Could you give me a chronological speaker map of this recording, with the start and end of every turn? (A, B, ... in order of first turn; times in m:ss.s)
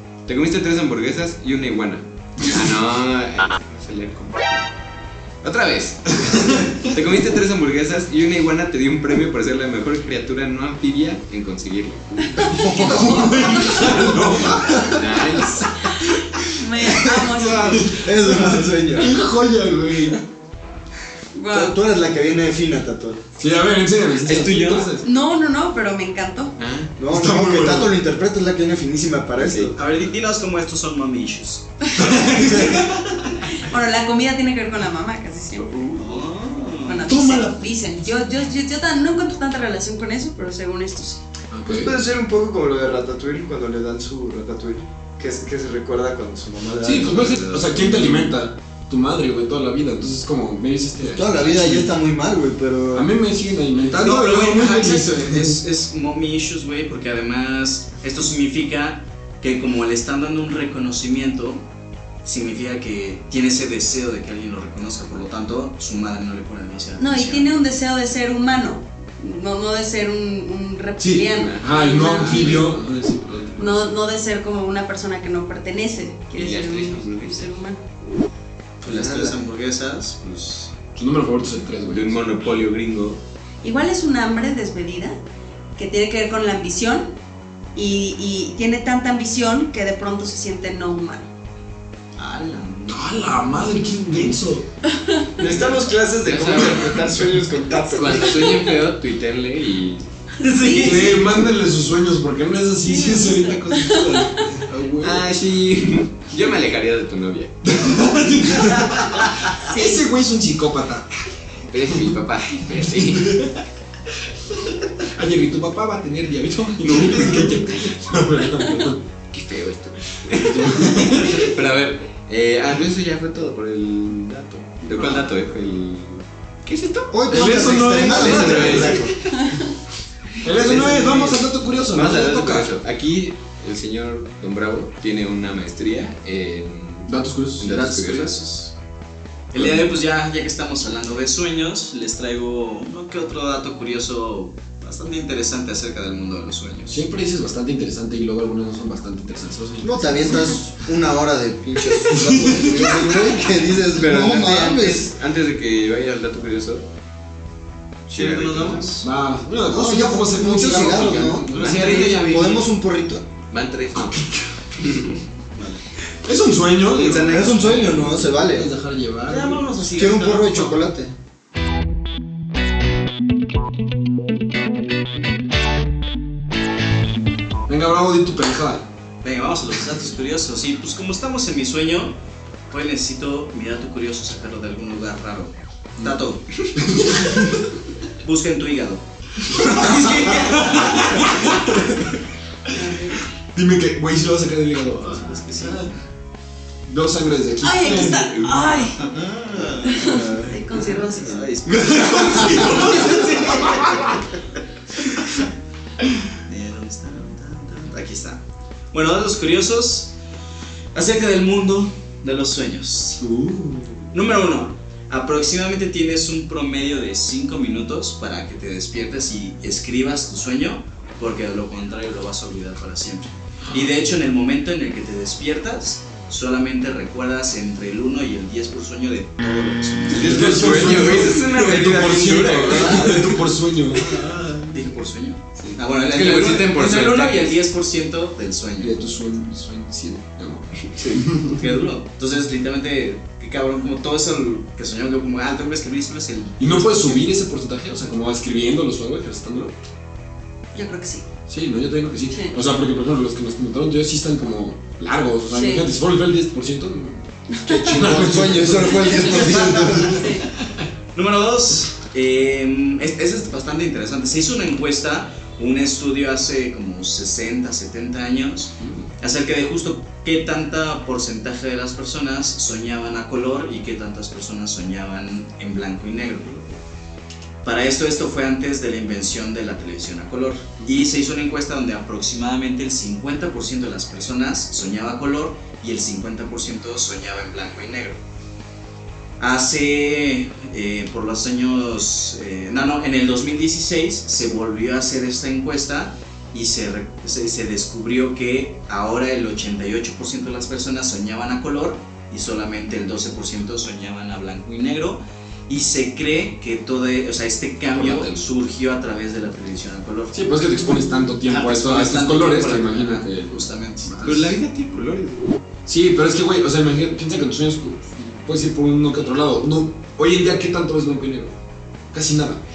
0:00.3-0:04.7 A
0:05.4-0:12.7 A
0:06.3-0:06.9 B
0:12.4-0:12.7 C
0:12.5-0:14.8 D
0:12.5-0:15.6 B
0:13.4-0:13.8 C
0:14.7-0:15.8 A
0:15.7-0:18.0 C
0:16.8-0:20.2 B
0:17.9-0:19.2 D
0:21.3-0:21.8 C
0:21.5-0:23.2 D
0:23.4-0:25.1 B
0:24.3-0:24.8 A
0:25.0-0:26.6 C
0:26.6-0:26.9 A
0:27.0-0:29.8 D
0:27.1-0:27.9 B
0:29.4-0:29.8 A
0:29.7-0:32.4 E
0:32.0-0:33.2 B
0:33.5-0:36.2 C
0:35.9-0:37.1 E
0:36.8-0:41.2 C
0:37.1-0:37.6 B
0:41.5-0:42.0 B
0:41.7-0:47.7 F
0:46.8-0:51.9 B
0:46.9-0:47.7 A
0:51.0-0:53.1 D
0:52.9-0:55.6 B
0:53.9-1:01.6 E
1:02.2-1:07.7 E
1:07.0-1:12.7 C
1:11.0-1:13.9 B
1:11.4-1:12.7 A
1:13.6-1:17.8 C
1:16.4-1:17.6 A
1:18.8-1:20.8 E
1:21.0-1:22.2 B
1:21.9-1:23.2 A
1:23.6-1:25.2 C
1:25.8-1:27.1 C
1:27.8-1:31.3 C
1:32.2-1:34.4 E
1:32.9-1:34.7 B
1:34.9-1:35.3 C
1:35.4-1:38.7 F
1:35.4-1:37.3 A
1:37.9-1:40.1 A
1:40.4-1:41.4 E
1:40.5-1:41.2 C
1:40.8-1:45.3 B
1:42.9-1:44.5 C
1:45.0-1:47.6 A
1:47.6-1:51.1 B
1:49.6-1:50.0 C
1:51.7-1:53.5 A
1:53.0-1:53.6 B
1:54.7-1:59.0 B
1:56.9-1:57.9 A
1:59.3-2:09.2 A
2:00.3-2:01.5 B
2:07.1-2:09.2 D
2:07.3-2:09.1 B
2:09.4-2:09.6 C
2:10.4-2:12.7 B
2:10.5-2:18.4 A
2:10.9-2:11.2 E
2:17.1-2:17.8 B
2:17.7-2:18.7 E
2:19.5-2:27.0 E
2:19.6-2:19.9 B
2:26.9-2:30.6 B
2:29.8-2:35.1 D
2:32.1-2:33.2 B
2:33.9-2:36.9 A
2:38.1-2:39.0 A
2:38.1-2:39.1 E
2:39.0-2:42.3 B
2:39.7-2:43.3 D
2:41.5-2:42.6 E
2:41.5-2:42.6 A
2:43.5-2:44.1 A
2:43.9-2:44.5 B
2:44.8-2:45.2 A
2:45.6-2:45.8 E
2:46.2-2:49.7 B
2:46.9-2:48.0 A
2:47.2-2:48.7 D
2:49.2-2:50.8 E
2:50.0-2:51.1 D
2:57.7-2:58.8 B
2:59.2-3:02.2 E
3:02.7-3:07.4 E
3:06.8-3:07.6 B
3:08.2-3:11.6 E
3:09.6-3:11.9 B
3:12.8-3:13.2 C
3:13.5-3:15.9 B
3:15.0-3:16.0 E
3:16.9-3:18.7 B
3:17.6-3:19.0 C
3:19.0-3:24.2 E
3:19.8-3:21.5 C
3:21.7-3:24.1 B
3:26.5-3:30.1 E
3:30.9-3:33.2 E
3:33.2-3:34.1 B
3:34.1-3:50.9 E
3:50.1-3:51.9 A
3:50.1-3:54.8 B
3:50.4-3:53.3 F
3:51.5-3:59.0 E
3:56.1-3:57.6 A
3:58.8-4:01.6 B
4:01.4-4:07.3 E
4:06.6-4:09.7 B
4:10.7-4:11.2 C
4:11.5-4:20.4 B
4:12.3-4:12.6 C
4:15.5-4:15.9 C
4:17.5-4:17.9 C
4:17.7-4:20.2 D
4:20.1-4:20.5 C
4:21.1-4:36.7 E
4:28.8-4:29.1 B
4:37.6-4:48.2 E
4:49.4-5:14.4 E
5:07.9-5:08.4 B
5:10.3-5:14.6 B
5:14.2-5:15.6 A
5:15.9-5:21.6 B
5:22.1-5:22.6 B